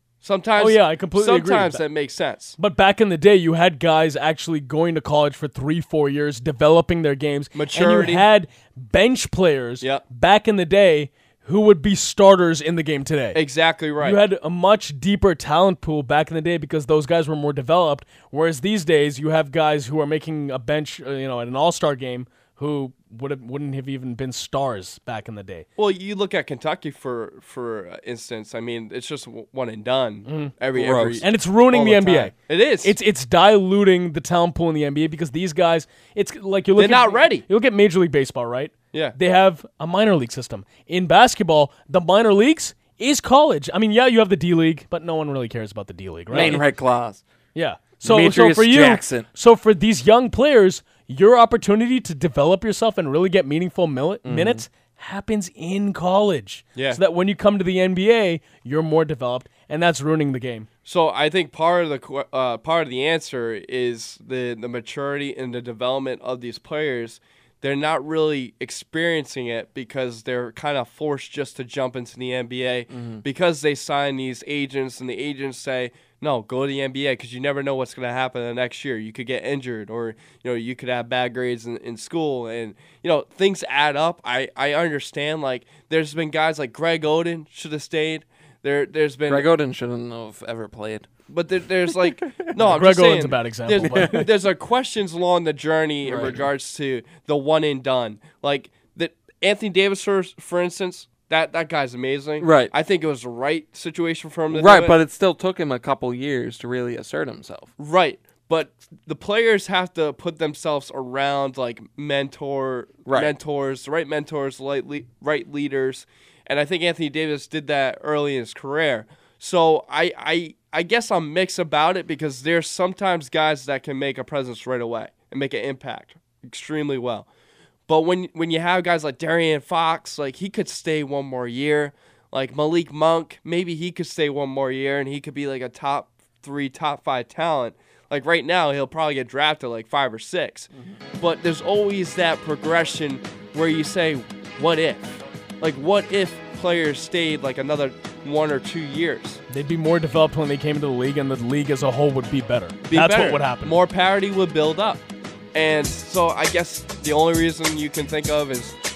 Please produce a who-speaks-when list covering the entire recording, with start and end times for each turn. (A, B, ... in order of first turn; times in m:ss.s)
0:00.2-0:02.6 A
0:00.6-0:01.9 B
0:02.6-0:13.4 B
0:07.5-0:08.3 A
0:13.3-0:14.2 A
0:14.0-0:25.7 B
0:25.8-0:32.9 A
0:30.3-0:30.5 B
0:30.7-0:31.2 C
0:31.2-0:46.7 B
0:36.8-0:37.5 A
0:46.3-0:47.2 C
0:47.6-1:00.7 B
0:48.0-0:49.3 C
0:54.2-0:54.6 C
0:56.8-0:57.0 A
1:00.9-1:29.5 A
1:12.9-1:13.2 C
1:29.3-1:31.1 C
1:31.3-1:45.0 A
1:32.3-1:32.5 C
1:32.6-1:34.3 B
1:33.8-1:34.3 C
1:36.0-1:36.4 C
1:42.4-1:42.7 C
1:44.5-1:47.7 C
1:47.8-2:07.3 A
1:53.1-1:53.3 C
2:07.9-2:29.4 A
2:20.7-2:21.0 C
2:29.5-2:33.8 B
2:32.8-2:35.0 A
2:35.5-2:38.8 A